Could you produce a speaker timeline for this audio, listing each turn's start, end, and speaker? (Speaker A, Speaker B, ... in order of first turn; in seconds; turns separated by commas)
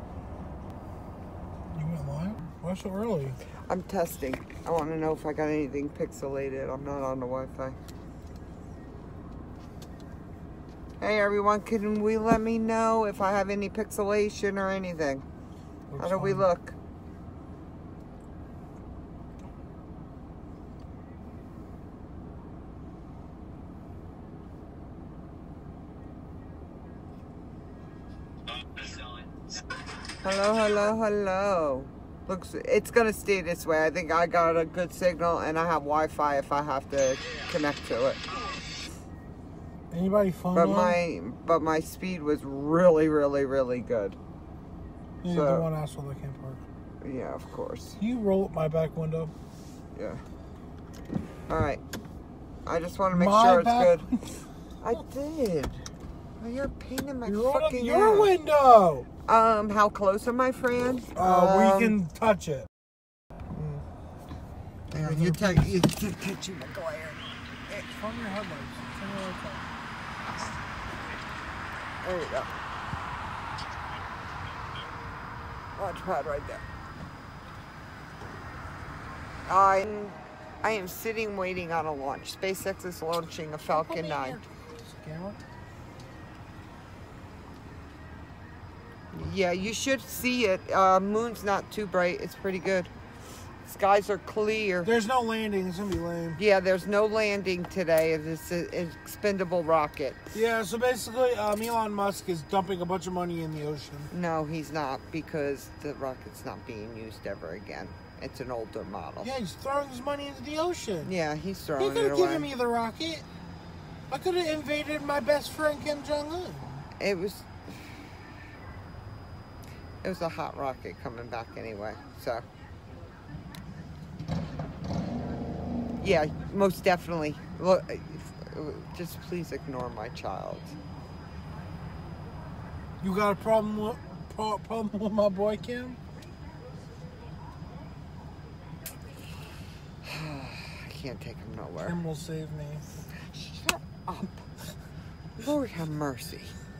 Speaker A: 1.7-3.4, Speaker B: 3.7-7.8, Speaker B: 11.0-15.2, Speaker A: 15.9-16.5, Speaker B: 16.0-16.8, Speaker B: 30.2-38.2, Speaker A: 39.9-41.0, Speaker B: 40.5-44.2, Speaker A: 45.2-46.6, Speaker B: 45.3-45.7, Speaker B: 47.0-48.0, Speaker A: 48.0-49.3, Speaker B: 50.0-50.2, Speaker B: 51.5-51.8, Speaker B: 52.7-54.1, Speaker A: 53.1-54.4, Speaker B: 54.8-55.9, Speaker B: 56.4-58.3, Speaker A: 57.2-59.1, Speaker B: 59.3-62.0, Speaker A: 61.1-62.7, Speaker B: 63.5-63.8, Speaker B: 64.9-67.9, Speaker A: 64.9-65.7, Speaker A: 67.9-69.7, Speaker B: 72.0-72.5, Speaker B: 75.8-76.6, Speaker B: 79.5-84.4, Speaker A: 83.7-85.4, Speaker B: 89.1-92.9, Speaker B: 93.6-94.9, Speaker A: 94.8-96.4, Speaker B: 96.4-100.2, Speaker A: 100.3-104.1, Speaker B: 104.1-109.3, Speaker A: 109.2-111.1, Speaker B: 111.0-112.5, Speaker A: 111.8-113.3, Speaker A: 114.1-116.9, Speaker B: 117.0-118.0, Speaker B: 120.0-122.5, Speaker B: 126.0-130.8, Speaker A: 133.0-136.0, Speaker B: 140.0-142.0, Speaker A: 141.8-142.8, Speaker B: 143.1-144.5, Speaker B: 145.4-146.6